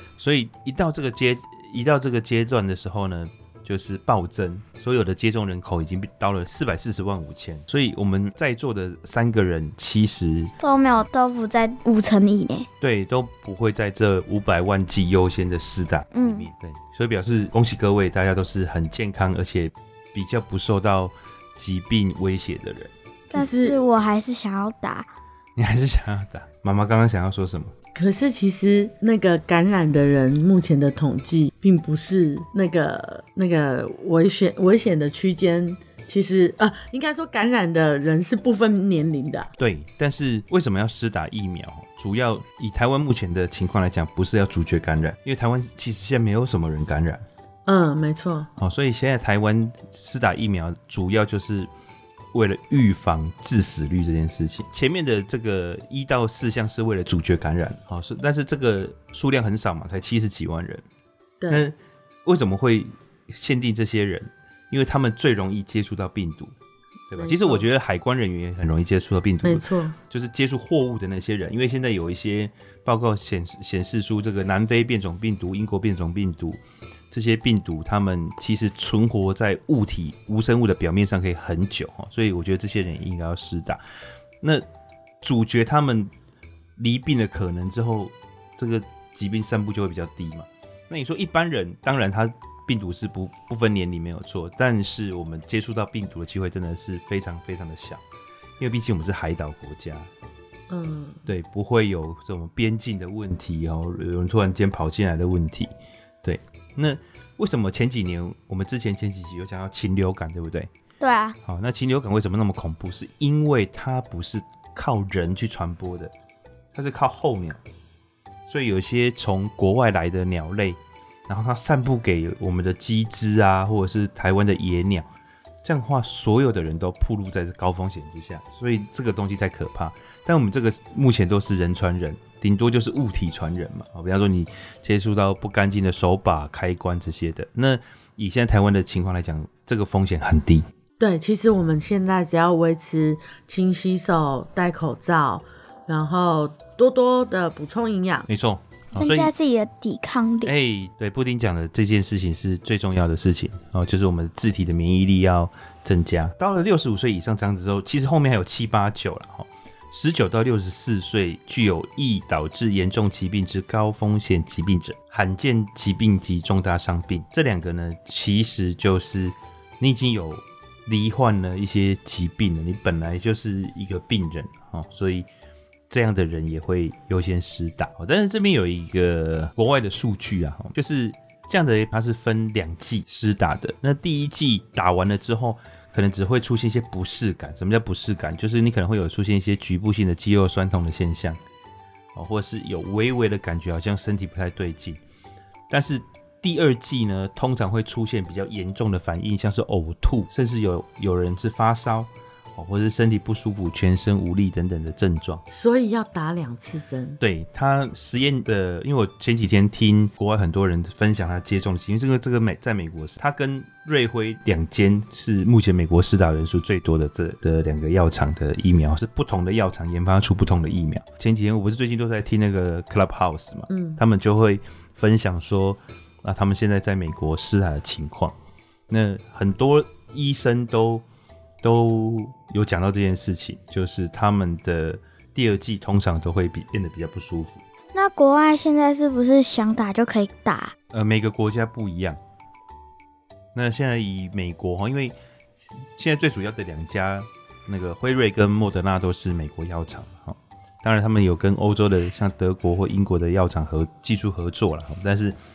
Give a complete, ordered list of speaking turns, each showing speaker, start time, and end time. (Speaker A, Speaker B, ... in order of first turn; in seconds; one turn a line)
Speaker A: 0.2-10.5
Speaker B: 10.6-12.7
Speaker A: 12.8-22.9
Speaker B: 16.1-16.4
Speaker B: 23.3-25.1
Speaker C: 23.3-23.8
Speaker A: 25.6-27.7
Speaker C: 27.9-39.5
Speaker A: 39.6-47.2
Speaker C: 47.7-48.5
Speaker A: 48.6-51.7
Speaker A: 52.3-60.8
Speaker C: 61.4-61.6
Speaker A: 61.5-66.5
Speaker A: 67.1-76.6
Speaker C: 67.2-67.7
Speaker C: 69.4-69.9
Speaker A: 77.1-83.8
Speaker A: 85.2-86.1
Speaker A: 86.8-98.0
Speaker A: 98.6-100.1
Speaker C: 100.7-101.2
Speaker A: 101.2-105.7
Speaker A: 106.2-110.7
Speaker B: 111.0-111.3
Speaker A: 111.5-116.1
Speaker A: 116.7-117.6
Speaker A: 118.5-125.1
Speaker A: 125.6-140.7
Speaker C: 141.0-148.2
Speaker A: 148.3-149.3
Speaker B: 148.9-150.5
Speaker A: 150.4-175.3
Speaker A: 175.9-191.4
Speaker A: 192.1-195.0
Speaker A: 195.7-205.4
Speaker C: 205.5-207.2
Speaker A: 207.2-228.3
Speaker C: 223.7-224.0
Speaker A: 228.9-231.0
Speaker A: 231.6-237.6
Speaker B: 237.9-240.7
Speaker A: 240.9-242.2
Speaker A: 243.5-245.1
Speaker A: 245.9-255.3